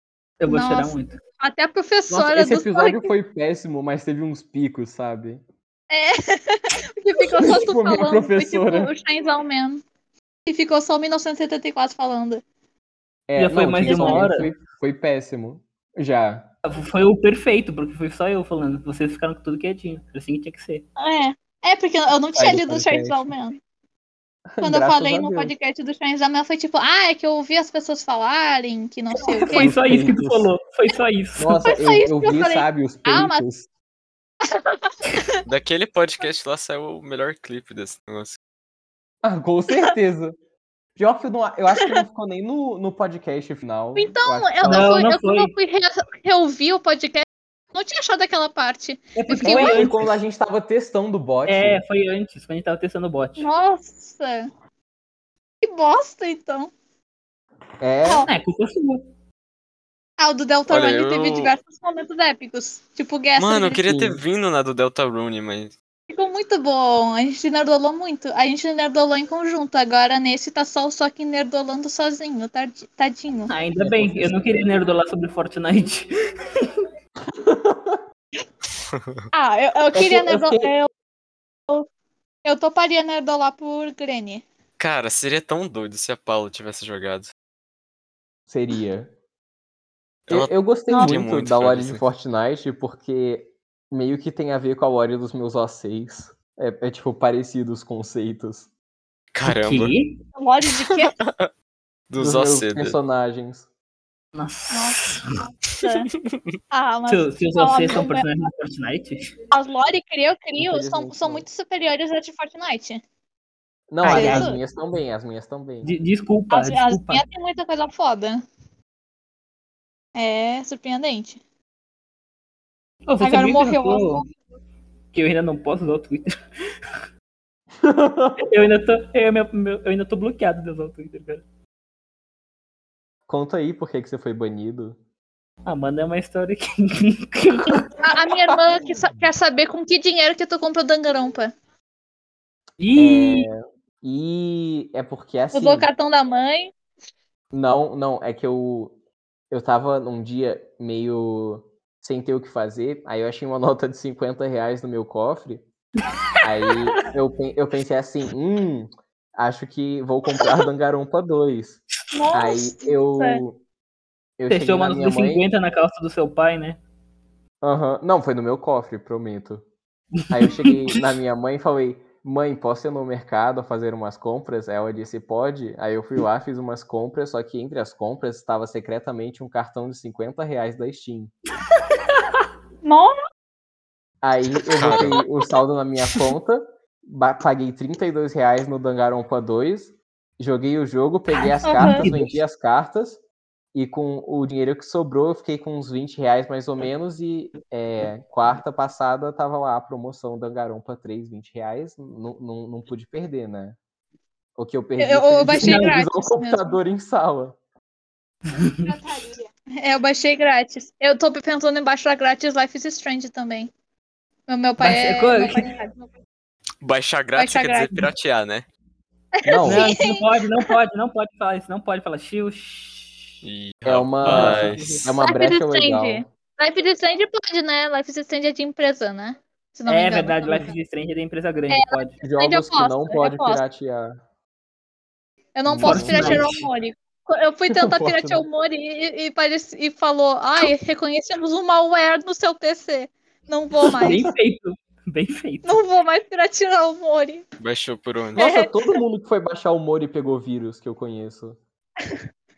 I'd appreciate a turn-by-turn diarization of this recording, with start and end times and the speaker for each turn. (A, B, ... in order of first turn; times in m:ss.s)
0:00.4-0:01.2 A
0:00.5-0:03.1 B
0:02.1-0:05.4 C
0:05.9-0:09.8 B
0:07.2-0:08.9 C
0:10.5-0:12.4 B
0:13.3-0:16.5 C
0:13.4-0:14.5 A
0:13.8-0:14.3 B
0:16.7-0:20.8 A
0:21.0-0:23.6 B
0:22.4-0:23.3 C
0:24.5-0:25.5 C
0:24.6-0:29.7 B
0:29.2-0:31.7 A
0:29.5-0:30.5 C
0:31.4-0:33.7 C
0:31.6-0:33.4 B
0:34.4-0:35.4 B
0:35.5-0:38.4 D
0:39.2-0:40.4 C
0:41.0-0:44.9 C
0:44.0-0:49.9 B
0:44.6-0:45.5 A
0:49.2-0:50.1 A
0:49.4-0:51.8 C
0:51.5-0:53.5 A
0:53.4-0:54.5 B
0:55.6-0:56.7 B
0:57.8-0:58.3 C
0:58.3-0:59.0 A
1:00.2-1:03.9 B
1:00.7-1:01.5 D
1:03.4-1:05.7 D
1:03.8-1:04.2 C
1:06.1-1:13.5 B
1:13.5-1:16.7 A
1:13.8-1:14.6 C
1:17.4-1:18.0 C
1:18.9-1:19.2 D
1:19.3-1:20.9 B
1:19.9-1:20.7 C
1:22.4-1:24.4 B
1:24.8-1:27.3 D
1:28.5-1:29.1 C
1:30.3-1:32.0 D
1:30.3-1:38.7 C
1:39.3-1:39.9 D
1:39.4-1:40.2 A
1:40.4-1:41.1 B
1:40.8-1:41.5 D
1:42.1-1:43.0 D
1:42.2-1:43.7 C
1:44.4-1:45.3 A
1:44.7-1:45.0 B
1:45.6-1:46.1 B
1:46.7-1:48.3 B
1:47.1-1:49.3 A
1:49.5-1:53.0 B
1:50.6-1:51.5 C
1:53.9-1:56.0 C
1:54.0-1:54.5 A
1:54.0-1:54.6 B
1:55.8-1:57.2 A
1:56.5-1:58.4 B
2:00.2-2:01.4 B
2:03.1-2:04.3 A
2:03.2-2:04.3 B
2:05.1-2:06.4 A
2:07.8-2:08.4 C
2:08.4-2:11.4 A
2:13.3-2:15.0 C
2:15.7-2:17.8 A
2:18.0-2:21.5 B
2:22.8-2:23.5 A
2:23.0-2:25.9 C
2:25.5-2:26.7 B
2:27.5-2:29.0 C
2:29.5-2:35.6 C
2:36.4-2:41.8 C
2:42.1-2:43.4 B
2:42.3-2:43.6 C
2:44.4-2:45.4 C
2:44.5-2:46.8 A
2:47.6-2:49.6 C
2:50.3-3:01.3 C
2:50.4-2:51.0 A
3:02.1-3:02.4 A
3:02.8-3:03.1 B
3:04.2-3:13.2 C
3:04.8-3:05.1 D
3:11.6-3:12.4 A
3:11.6-3:12.0 B
3:13.7-3:23.8 C
3:24.6-3:27.6 C
3:25.0-3:26.8 B
3:25.6-3:26.0 A
3:28.5-3:28.9 A
3:28.8-3:33.7 B
3:34.5-3:35.9 B
3:34.8-3:35.7 A
3:36.8-3:38.7 D
3:37.4-3:37.9 B
3:39.4-3:40.7 B
3:39.5-3:39.9 C
3:39.6-3:43.4 A
3:43.4-3:45.0 D
3:43.8-3:46.3 C
3:44.2-3:45.2 A
3:45.2-3:50.7 B
3:49.9-3:52.2 A
3:51.7-3:53.6 B
3:52.2-3:54.2 C
3:55.6-4:04.2 B
3:55.7-3:56.4 C
3:55.8-3:56.7 A
3:57.7-3:58.5 C
4:03.9-4:05.8 A
4:05.6-4:07.4 B
4:07.6-4:08.4 D
4:08.4-4:11.6 C
4:08.4-4:08.6 B